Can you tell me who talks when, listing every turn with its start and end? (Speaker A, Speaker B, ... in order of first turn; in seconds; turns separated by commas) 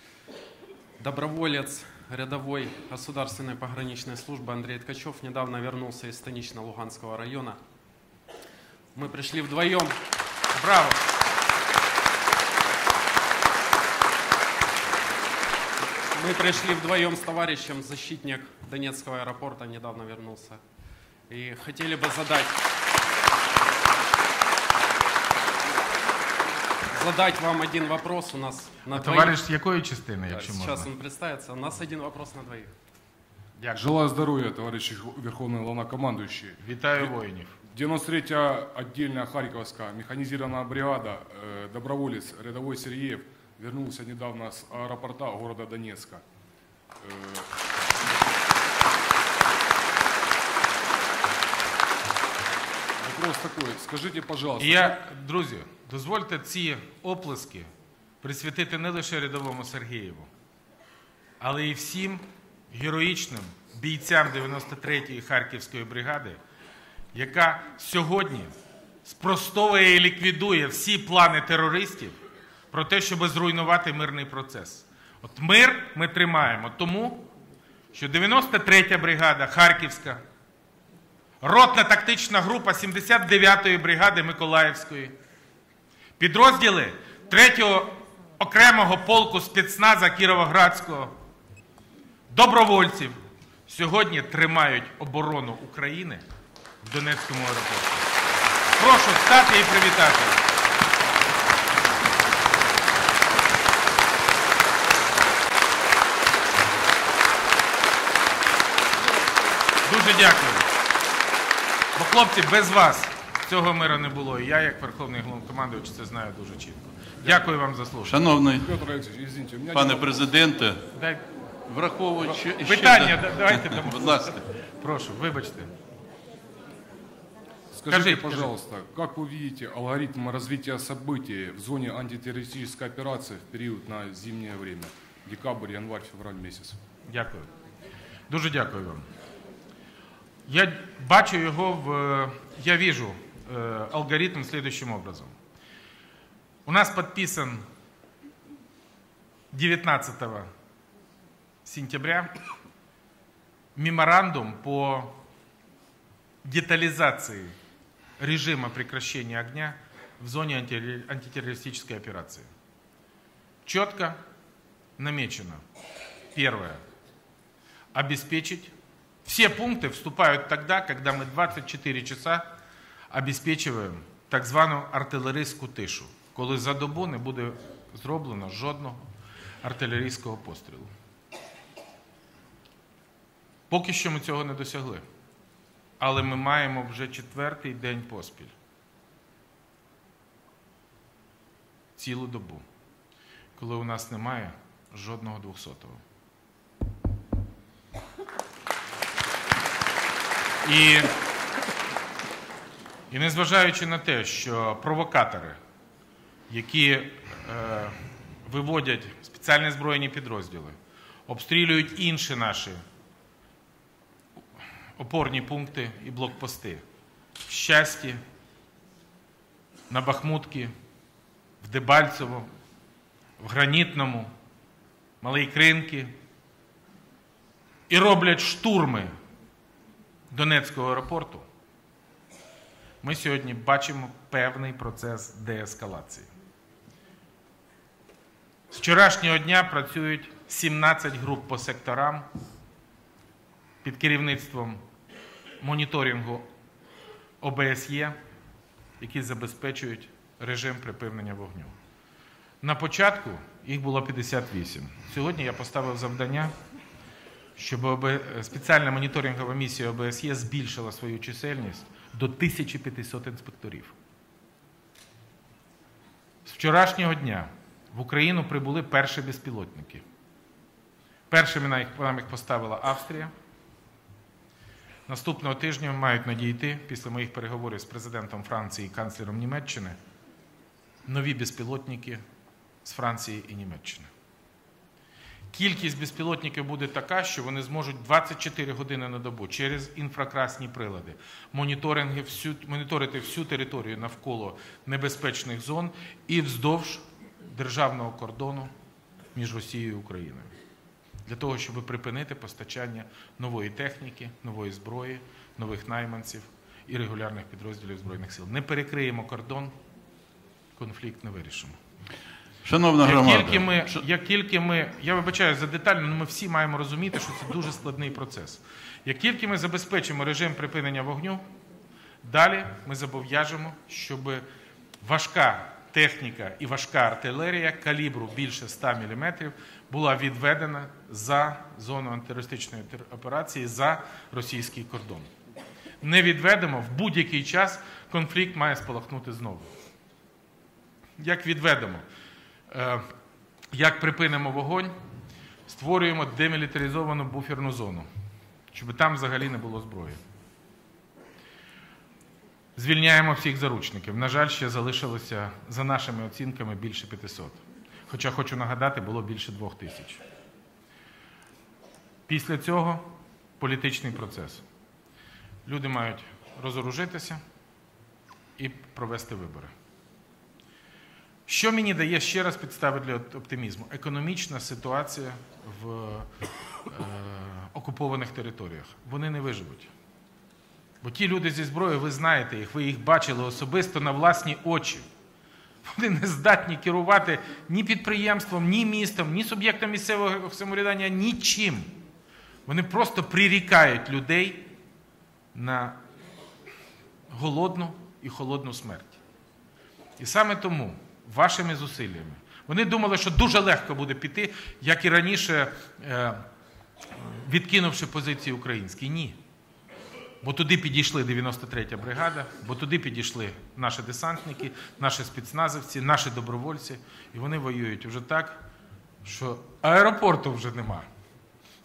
Speaker A: 1.0-7.6, Speaker A: 8.9-9.9, Speaker B: 10.5-11.0, Speaker A: 16.1-20.6, Speaker A: 21.3-22.6, Speaker A: 26.9-29.4, Speaker B: 28.9-30.9, Speaker A: 30.3-32.7, Speaker C: 33.7-37.0, Speaker B: 36.6-37.6, Speaker C: 37.7-46.2, Speaker C: 47.0-47.5, Speaker C: 53.0-54.9, Speaker B: 54.6-57.7, Speaker B: 58.2-60.3, Speaker B: 61.4-66.4, Speaker B: 67.1-68.5, Speaker B: 69.0-72.1, Speaker B: 72.7-77.2, Speaker B: 77.9-80.2, Speaker B: 81.4-85.1, Speaker B: 86.2-91.1, Speaker B: 92.3-96.2, Speaker B: 96.8-98.1, Speaker B: 98.8-100.4, Speaker B: 109.9-110.7, Speaker B: 112.0-118.2, Speaker D: 118.0-118.6, Speaker C: 118.5-120.2, Speaker D: 119.7-120.8, Speaker B: 120.9-121.2, Speaker D: 121.7-124.3, Speaker B: 122.5-125.7, Speaker C: 127.7-136.8, Speaker B: 127.9-128.5, Speaker B: 137.1-137.5, Speaker B: 138.3-139.0, Speaker B: 140.5-145.3, Speaker B: 146.7-147.6, Speaker B: 149.5-150.5, Speaker B: 151.6-152.3, Speaker B: 153.8-155.1, Speaker B: 156.4-157.5, Speaker B: 158.2-162.5, Speaker B: 163.6-164.2, Speaker B: 165.0-165.6, Speaker B: 166.3-166.8, Speaker B: 167.9-168.7, Speaker B: 169.2-172.4, Speaker B: 173.1-179.0, Speaker B: 179.6-180.9, Speaker B: 183.7-185.0, Speaker B: 186.0-188.5, Speaker B: 192.0-192.6, Speaker B: 193.6-196.0, Speaker B: 200.6-201.1, Speaker B: 203.1-205.6, Speaker B: 206.5-210.7, Speaker B: 211.3-212.8, Speaker B: 215.0-216.8, Speaker B: 217.5-218.2, Speaker B: 219.9-220.7, Speaker B: 221.6-222.5, Speaker B: 223.4-224.3, Speaker B: 225.2-226.1, Speaker B: 227.9-229.1, Speaker B: 230.3-231.4, Speaker B: 233.0-236.3, Speaker B: 238.7-242.2, Speaker B: 243.8-244.8, Speaker B: 245.6-246.4, Speaker B: 247.4-248.1, Speaker B: 249.0-251.7, Speaker B: 252.6-256.5, Speaker B: 257.6-263.9, Speaker B: 266.4-270.0, Speaker B: 271.3-273.3, Speaker B: 275.1-279.9, Speaker B: 281.1-282.2, Speaker B: 282.8-284.1, Speaker B: 285.5-298.7, Speaker B: 299.3-300.5, Speaker B: 301.3-309.7, Speaker B: 310.8-311.7, Speaker D: 312.6-314.0, Speaker B: 313.0-321.4, Speaker B: 322.2-324.4, Speaker B: 325.0-335.3, Speaker B: 336.0-339.7, Speaker B: 341.2-342.0, Speaker B: 342.7-343.0, Speaker B: 343.7-344.9, Speaker B: 345.7-348.1, Speaker B: 348.7-350.2, Speaker B: 352.8-360.2, Speaker B: 362.3-363.0, Speaker B: 363.6-364.6, Speaker B: 365.6-367.4, Speaker B: 368.6-369.7, Speaker B: 371.5-376.3, Speaker B: 376.9-379.9, Speaker B: 381.0-385.0, Speaker B: 385.9-391.9, Speaker B: 392.6-394.6, Speaker B: 395.5-396.0, Speaker B: 397.3-399.2, Speaker B: 400.2-406.4, Speaker B: 407.1-409.3, Speaker B: 410.4-418.6, Speaker B: 419.2-421.1